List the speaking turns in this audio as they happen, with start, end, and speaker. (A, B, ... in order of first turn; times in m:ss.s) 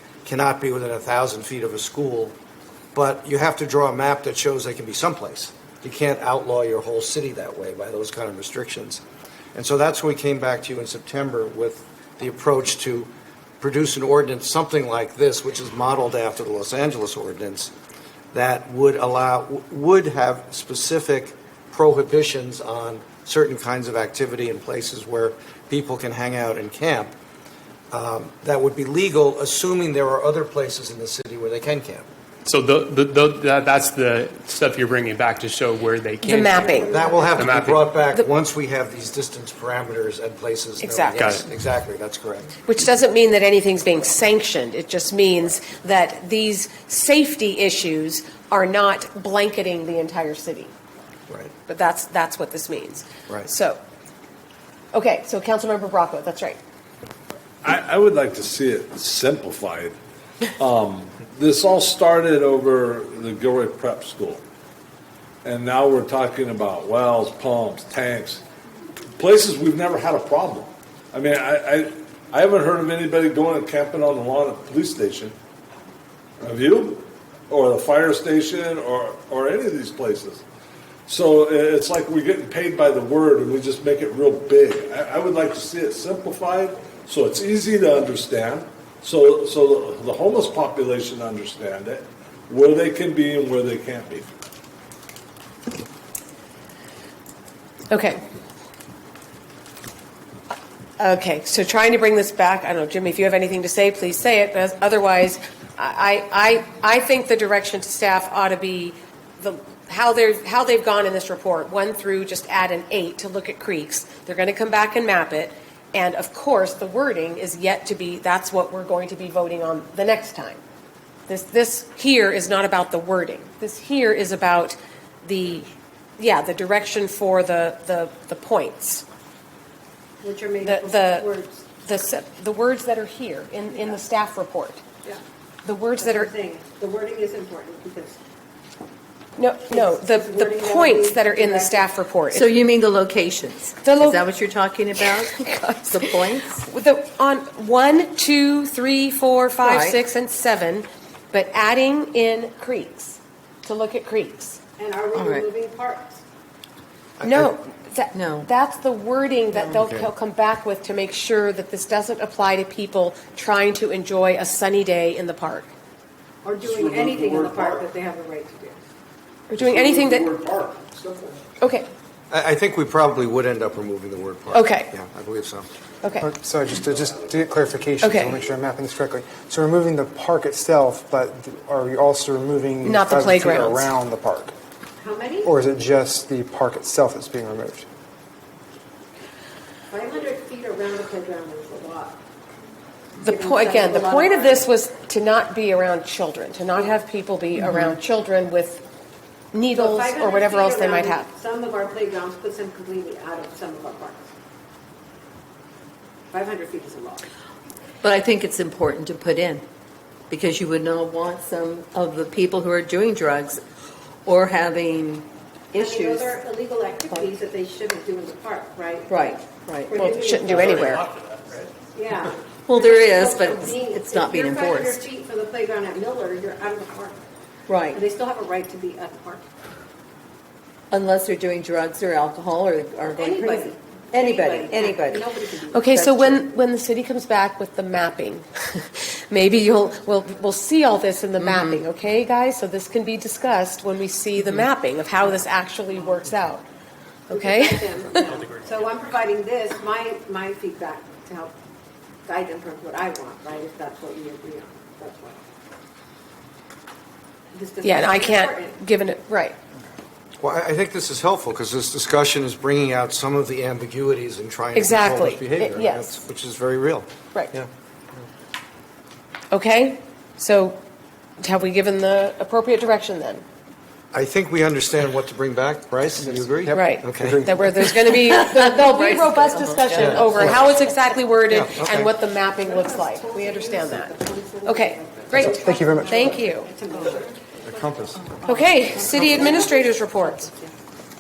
0:00.2-0:02.4 A
0:03.0-0:09.0 A
0:09.6-0:13.1 A
0:13.6-0:17.7 A
0:18.3-0:27.1 A
0:27.9-0:32.1 A
0:32.5-0:37.9 B
0:36.2-0:36.9 C
0:36.6-0:37.3 D
0:36.8-0:42.5 A
0:40.8-0:41.3 C
0:41.2-0:41.5 B
0:42.7-0:50.7 C
0:51.7-0:53.8 C
0:54.9-0:56.6 C
0:57.6-1:00.0 E
1:00.6-1:04.4 E
1:05.4-1:08.4 E
1:09.2-1:15.4 E
1:16.4-1:20.4 E
1:21.1-1:34.3 E
1:37.9-1:38.2 C
1:41.0-2:00.6 C
2:01.3-2:09.0 C
2:10.2-2:11.7 D
2:10.6-2:14.8 C
2:15.6-2:16.3 C
2:16.0-2:18.2 D
2:19.4-2:22.6 C
2:19.7-2:21.9 D
2:22.3-2:26.7 F
2:23.8-2:24.2 C
2:25.0-2:26.0 C
2:26.6-2:34.6 C
2:29.6-2:30.0 F
2:34.8-2:36.2 D
2:35.1-2:35.5 F
2:37.2-2:37.6 A
2:37.2-2:45.7 C
2:38.1-2:38.5 F
2:39.7-2:40.1 A
2:46.4-2:48.8 D
2:46.7-2:47.8 E
2:49.5-2:50.3 C
2:49.6-2:51.4 E
2:51.6-2:51.9 C
2:52.3-2:55.7 A
2:54.5-2:54.9 C
2:56.0-2:56.3 C
2:56.2-3:04.6 G
2:58.0-2:58.4 C
3:02.8-3:03.9 C
3:05.0-3:05.5 D
3:05.4-3:07.9 G
3:09.9-3:12.2 D
3:13.2-3:18.8 C
3:13.2-3:14.6 D
3:19.5-3:21.3 C
3:19.7-3:24.3 D
3:26.3-3:27.2 D
3:28.0-3:29.6 F
3:30.3-3:33.6 F
3:34.3-3:36.4 F
3:35.7-3:40.8 D
3:39.1-3:39.9 F
3:40.0-3:41.1 C
3:41.9-3:47.2 D
3:42.7-3:45.1 F
3:47.7-3:48.0 F
3:47.8-3:49.4 D
3:50.9-3:55.3 F
3:53.1-3:56.4 D
3:55.7-4:06.6 C
3:56.0-3:56.3 F
4:01.4-4:01.8 F
4:07.3-4:08.5 C
4:07.3-4:11.5 D
4:12.3-4:15.4 D
4:17.5-4:18.8 D
4:17.8-4:19.6 C
4:20.4-4:27.7 A
4:24.7-4:26.2 C
4:29.5-4:30.8 C
4:31.4-4:33.4 C
4:34.1-4:37.4 A
4:36.2-4:37.9 G
4:36.7-4:44.1 C
4:38.1-4:41.0 F
4:40.0-4:40.7 A
4:41.5-4:42.1 A
4:42.5-4:48.0 D
4:44.6-4:46.7 C
4:45.3-4:46.5 G
4:47.6-4:48.2 A
4:48.2-4:49.8 F
4:48.5-4:50.5 C
4:48.9-4:50.7 D